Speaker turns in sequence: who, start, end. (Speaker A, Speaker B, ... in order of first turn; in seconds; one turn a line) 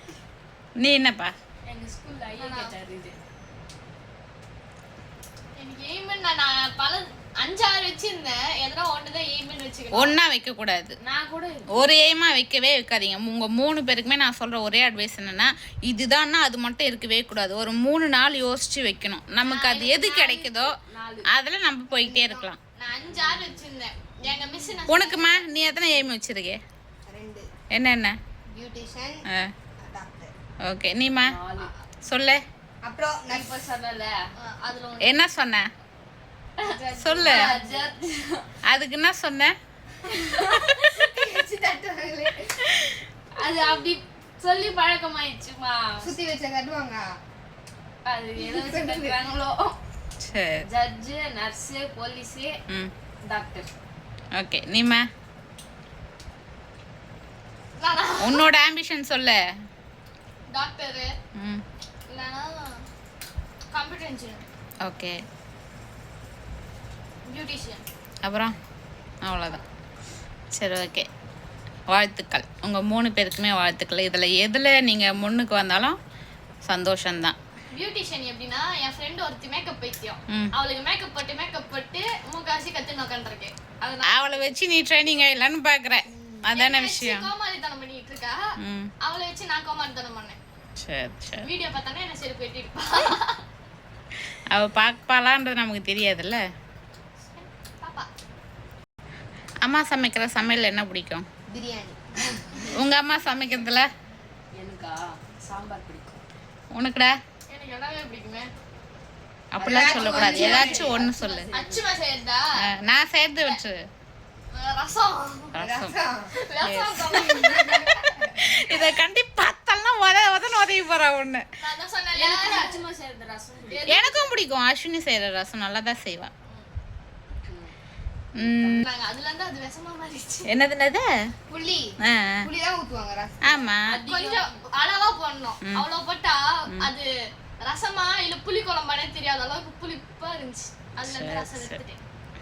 Speaker A: 0.8-1.3
Speaker B: 1.6-3.1
Speaker C: 2.4-2.7
Speaker D: 5.6-10.2
Speaker A: 9.9-10.9
Speaker B: 11.0-11.9
Speaker A: 11.7-20.7
Speaker D: 19.4-19.9
Speaker B: 19.9-21.3
Speaker A: 21.3-22.6
Speaker C: 21.9-22.5
Speaker D: 22.8-25.7
Speaker C: 24.2-25.1
Speaker A: 24.9-26.6
Speaker C: 27.1-27.5
Speaker A: 27.7-28.1
Speaker C: 28.5-29.2
Speaker C: 29.8-30.3
Speaker A: 30.6-31.4
Speaker B: 31.2-31.7
Speaker A: 32.0-32.4
Speaker C: 32.8-33.6
Speaker B: 33.3-34.1
Speaker D: 34.4-35.2
Speaker A: 35.0-35.6
Speaker B: 36.6-38.5
Speaker A: 37.0-37.4
Speaker C: 37.1-37.8
Speaker A: 38.7-39.5
Speaker B: 40.0-41.2
Speaker C: 40.1-42.8
Speaker B: 43.4-46.1
Speaker C: 46.0-47.1
Speaker B: 48.0-49.8
Speaker C: 48.4-49.2
Speaker A: 50.2-50.6
Speaker B: 50.7-52.5
Speaker B: 53.2-53.7
Speaker A: 54.3-55.0
Speaker D: 57.8-58.5
Speaker A: 58.2-59.4
Speaker D: 60.5-61.1
Speaker A: 61.4-61.6
Speaker D: 62.1-62.8
Speaker D: 63.7-64.5
Speaker A: 64.8-65.2
Speaker D: 67.2-67.8
Speaker A: 68.2-68.5
Speaker A: 69.2-69.6
Speaker A: 70.5-71.1
Speaker A: 71.9-76.0
Speaker A: 76.7-77.4
Speaker D: 77.7-84.2
Speaker A: 84.0-87.3
Speaker C: 86.1-86.5
Speaker D: 86.5-88.4
Speaker A: 88.6-88.9
Speaker D: 89.0-90.4
Speaker A: 90.8-91.5
Speaker D: 91.4-93.4
Speaker A: 94.5-96.4
Speaker D: 97.3-98.1
Speaker A: 99.6-101.2
Speaker C: 101.5-102.7
Speaker A: 102.7-103.9
Speaker B: 104.5-106.2
Speaker A: 106.7-107.2
Speaker D: 107.5-108.5
Speaker A: 109.5-111.5
Speaker B: 109.6-111.9
Speaker C: 109.6-111.1
Speaker D: 111.5-112.4
Speaker A: 112.6-113.8
Speaker D: 114.5-115.5
Speaker A: 115.5-115.9
Speaker C: 115.6-116.3
Speaker D: 116.3-118.9
Speaker A: 116.6-117.5
Speaker C: 117.2-118.3
Speaker A: 118.4-121.4
Speaker D: 121.6-122.8
Speaker B: 122.1-123.8
Speaker D: 123.7-124.3
Speaker A: 123.9-126.3
Speaker B: 127.5-127.7
Speaker A: 128.4-128.8
Speaker B: 128.4-128.8
Speaker D: 128.8-130.5
Speaker A: 130.5-131.1
Speaker C: 131.5-133.7
Speaker A: 132.0-132.4
Speaker A: 133.5-134.0
Speaker B: 133.8-134.6
Speaker D: 134.0-137.1
Speaker D: 137.6-142.0
Speaker A: 141.0-141.8